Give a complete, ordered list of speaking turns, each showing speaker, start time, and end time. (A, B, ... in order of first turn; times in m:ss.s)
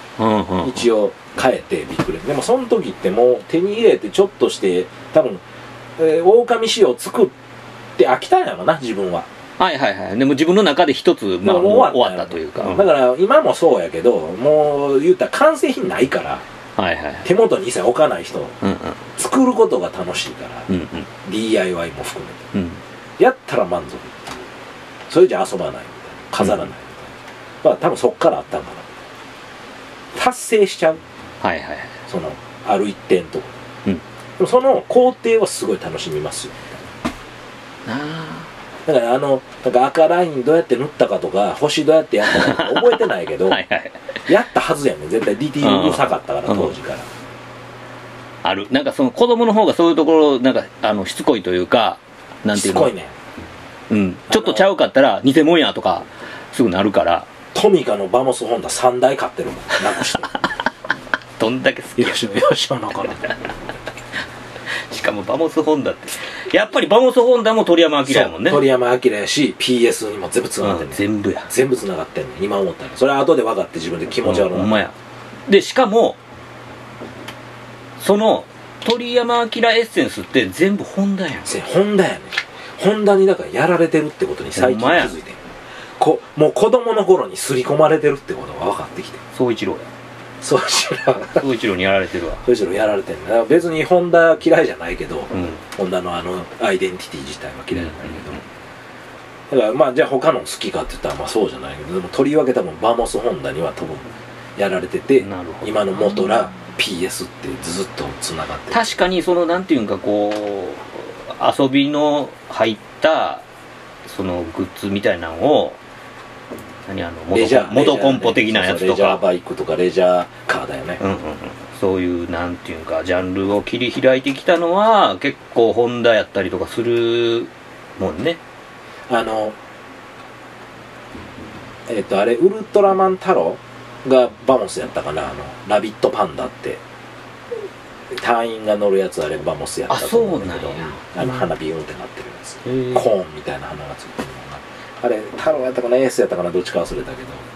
0:00.2-0:00.9 A
0:00.6-0:05.4 B
0:06.0-0:07.3 B
0:08.0-0:09.3 B
0:09.6-0:12.9 A
0:11.4-0:16.4 B
0:16.8-0:17.2 A
0:17.2-0:18.6 B
0:18.6-0:19.0 A
0:19.2-0:20.7 B
0:20.7-0:21.1 A
0:21.2-0:22.5 B
0:22.5-0:22.8 A
0:23.2-0:24.4 B
0:25.1-0:28.9 B
0:30.1-0:31.0 B
0:31.4-0:32.0 A
0:32.1-0:33.5 B
0:34.4-0:36.8 B
0:37.8-0:38.5 A
0:38.8-0:43.6 B
0:42.3-0:44.0 A
0:44.2-0:47.1 B
0:45.6-0:46.7 A
0:48.4-0:52.9 A
0:52.5-0:53.1 B
0:53.9-0:57.3 A
0:54.3-0:54.7 B
0:57.5-1:00.3 B
1:01.4-1:02.4 A
1:02.0-1:03.3 B
1:04.9-1:08.6 A
1:08.0-1:14.8 B
1:10.6-1:11.5 A
1:14.2-1:14.9 A
1:15.5-1:16.2 A
1:18.0-1:21.5 A
1:21.4-1:25.5 B
1:24.5-1:25.1 A
1:26.0-1:29.2 B
1:29.3-1:29.9 A
1:30.4-1:31.4 B
1:31.3-1:32.4 A
1:32.4-1:38.4 B
1:35.3-1:35.6 A
1:37.8-1:38.2 A
1:39.5-1:49.0 B
1:45.2-1:46.3 A
1:48.7-1:53.4 A
1:54.0-1:55.8 A
1:56.9-1:59.2 A
1:57.3-2:01.0 B
2:01.0-2:08.4 A
2:09.1-2:09.6 B
2:11.9-2:16.8 B
2:18.1-2:27.4 B
2:19.9-2:21.4 A
2:22.6-2:23.1 A